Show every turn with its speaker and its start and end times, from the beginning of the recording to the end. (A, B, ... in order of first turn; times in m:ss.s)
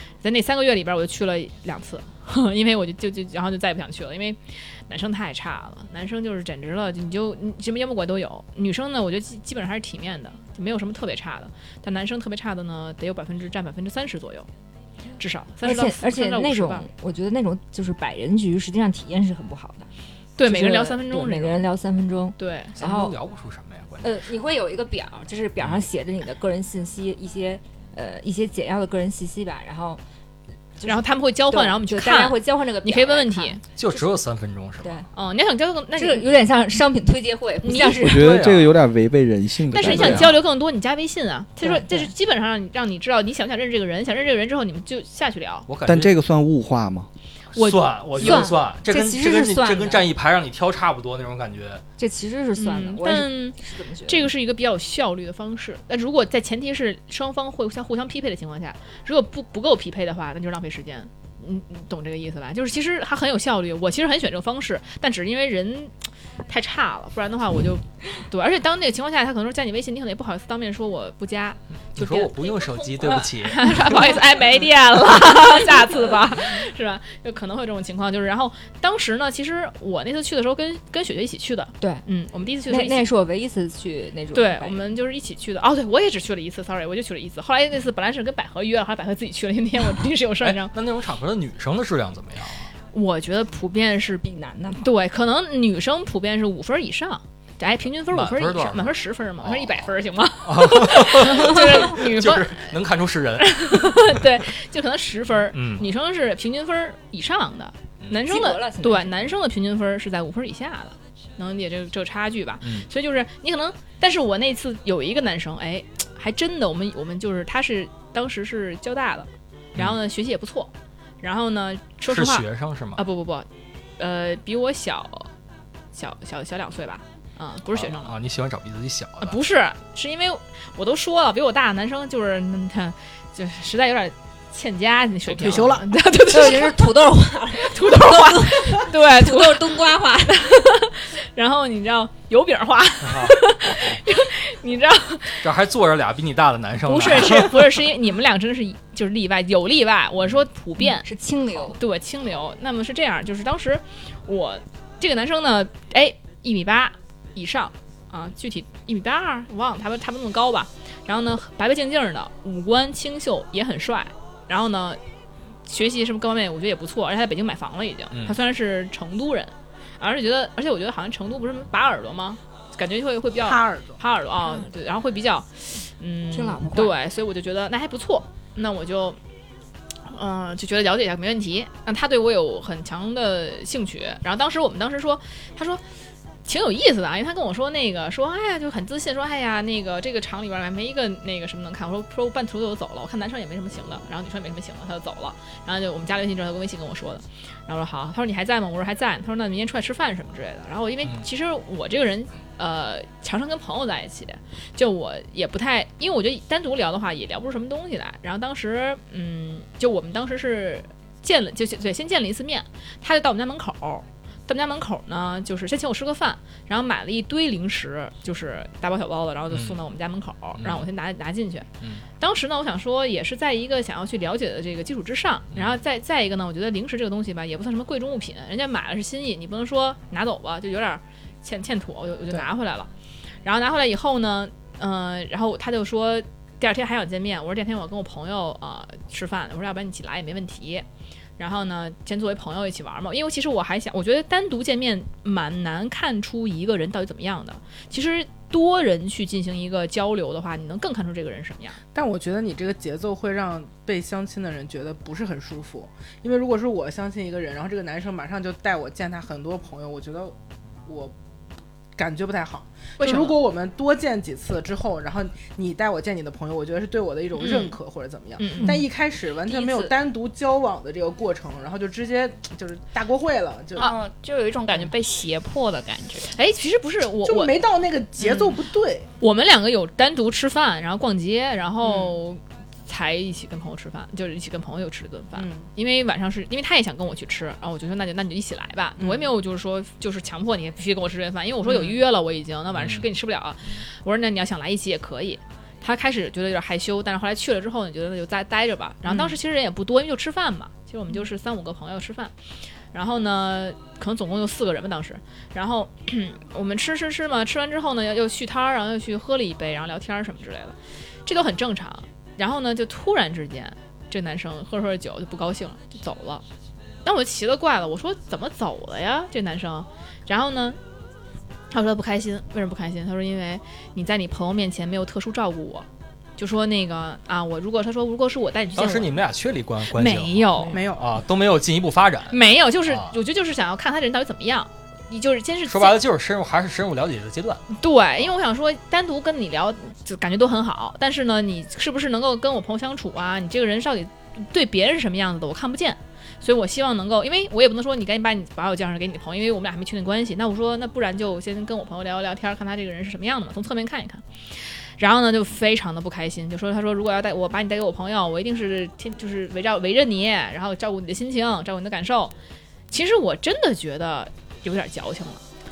0:00.2-0:14.5 A
0:15.2-0:16.9 A
0:15.6-0:19.9 B
0:20.4-0:21.6 A
0:20.4-0:23.2 B
0:22.4-0:22.8 A
0:22.8-0:24.1 C
0:24.0-0:30.0 B
0:30.8-0:34.0 B
0:30.8-0:33.6 A
0:33.8-0:35.0 C
0:35.1-0:36.3 A
0:36.0-0:38.3 B
0:37.6-0:38.1 A
0:38.0-0:40.3 D
0:38.2-0:38.8 C
0:39.7-0:45.7 A
0:39.8-0:40.2 B
0:39.9-0:40.3 C
0:41.6-0:42.1 B
0:45.7-0:46.1 C
0:45.8-0:47.1 D
0:47.5-0:51.8 C
0:47.6-0:48.5 A
0:48.2-0:50.1 B
0:52.0-0:54.3 B
0:52.6-1:05.9 A
1:06.5-1:23.1 A
1:11.9-1:13.9 C
1:22.7-1:24.9 B
1:24.3-1:30.7 A
1:30.4-1:32.7 C
1:32.9-1:34.2 A
1:34.2-1:34.9 B
1:34.8-1:42.7 A
1:38.0-1:39.9 C
1:40.4-1:44.2 C
1:43.4-2:03.5 A
1:45.5-1:45.9 C
1:48.2-1:49.3 B
1:52.6-1:52.9 C
2:02.1-2:03.0 C
2:04.0-2:05.3 A
2:05.9-2:08.1 A
2:07.7-2:09.4 C
2:09.2-2:16.9 A
2:15.2-2:15.8 E
2:16.3-2:20.5 B
2:17.6-2:25.4 A
2:23.0-2:23.9 C
2:25.4-2:27.8 C
2:26.8-2:31.1 A
2:30.8-2:31.8 B
2:31.6-2:45.0 A
2:45.6-2:59.2 A
2:48.1-2:48.4 C
2:53.4-2:54.0 E
2:56.3-2:56.9 B
3:00.1-3:05.8 A
3:06.4-3:52.9 A
3:39.5-3:39.8 C
3:40.6-3:40.9 C
3:53.4-4:00.8 A
4:01.4-4:11.8 A
4:11.9-4:21.1 E
4:22.0-4:33.9 E
4:23.0-4:23.4 A
4:27.4-4:27.7 A
4:28.4-4:28.8 A
4:28.6-4:28.9 B
4:29.4-4:29.9 B
4:33.8-4:36.3 F
4:36.3-4:37.6 A
4:37.2-4:39.0 E
4:38.2-4:38.6 A
4:39.2-5:02.3 A
4:41.8-4:42.2 E
4:45.3-4:45.6 E
4:49.0-4:49.3 E
4:51.6-4:52.0 E
4:52.7-4:53.1 C
4:59.1-4:59.4 E
5:02.9-5:16.4 A
5:17.0-5:20.8 A
5:21.7-5:29.2 A
5:28.8-5:33.2 C
5:29.9-5:30.8 A
5:30.7-5:31.1 E
5:32.3-5:36.0 A
5:35.7-5:37.6 C
5:37.7-6:02.3 A
6:02.9-6:05.4 A